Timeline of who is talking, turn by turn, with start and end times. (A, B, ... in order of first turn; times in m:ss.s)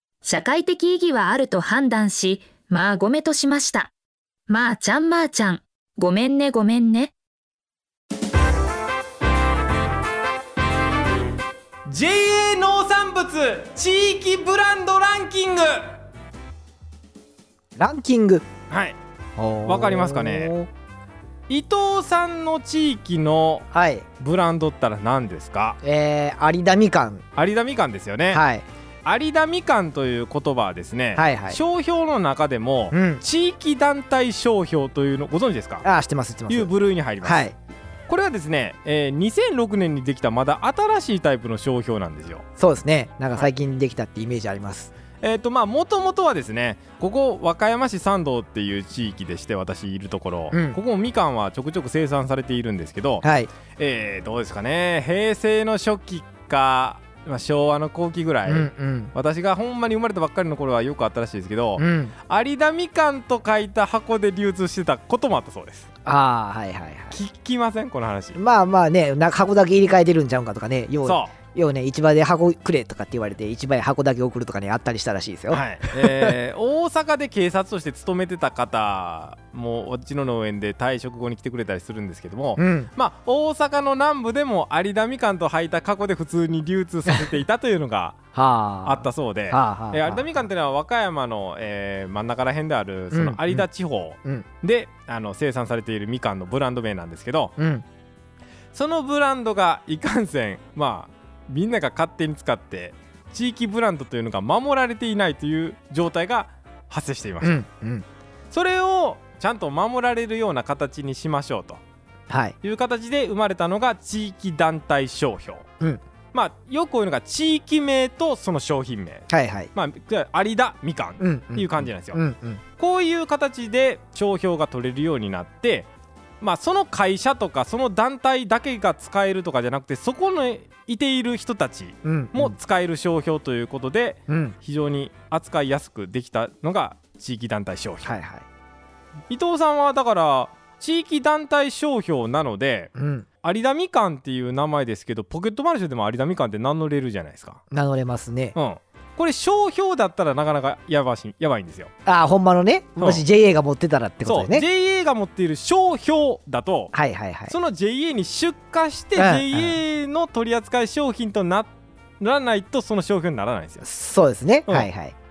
0:00.2-0:03.9 A
0:04.5-0:07.1 A
0:11.9-0:16.0 B
0:17.8-0:18.5 C
0:18.7-0:19.0 B
0:19.4-0:20.7 C
0:19.7-0:20.5 B
0:21.5-0:23.7 B
0:23.7-0:24.1 C
0:24.2-0:25.8 B
0:25.8-0:27.2 C
0:27.4-0:28.4 B
0:28.3-0:28.6 C
0:29.0-0:35.8 B
0:31.2-0:31.6 C
0:32.9-0:33.2 C
0:35.8-0:36.7 C
0:36.5-0:37.5 B
0:37.2-0:37.5 C
0:38.1-0:42.4 B
0:42.6-0:44.9 C
0:45.2-1:05.9 B
0:50.5-0:50.8 C
0:53.2-0:53.5 C
0:58.5-0:59.1 C
1:01.8-1:02.1 C
1:06.0-1:07.2 C
1:07.1-1:08.4 B
1:08.4-1:16.3 C
1:11.0-1:11.3 B
1:15.5-1:28.2 B
1:22.6-1:22.9 C
1:28.3-1:30.2 C
1:28.8-1:37.5 B
1:33.1-1:33.6 C
1:37.6-1:37.8 C
1:38.7-1:47.6 B
1:47.4-1:48.1 C
1:48.5-1:51.8 B
1:52.3-1:52.6 C
1:52.6-1:55.6 B
1:56.3-2:02.2 B
1:59.3-1:59.7 C
2:01.2-2:02.6 C
2:02.8-2:05.9 B
2:06.4-2:18.1 B
2:12.0-2:12.6 C
2:14.3-2:14.6 C
2:18.0-2:18.5 C
2:19.3-2:22.9 B
2:23.0-2:23.3 C
2:23.4-2:27.6 B
2:27.7-2:28.6 C
2:28.6-2:31.9 B
2:32.1-2:34.6 C
2:34.2-2:36.9 B
2:36.9-2:37.5 C
2:37.5-2:43.9 B
2:39.2-2:39.8 C
2:43.8-2:45.2 C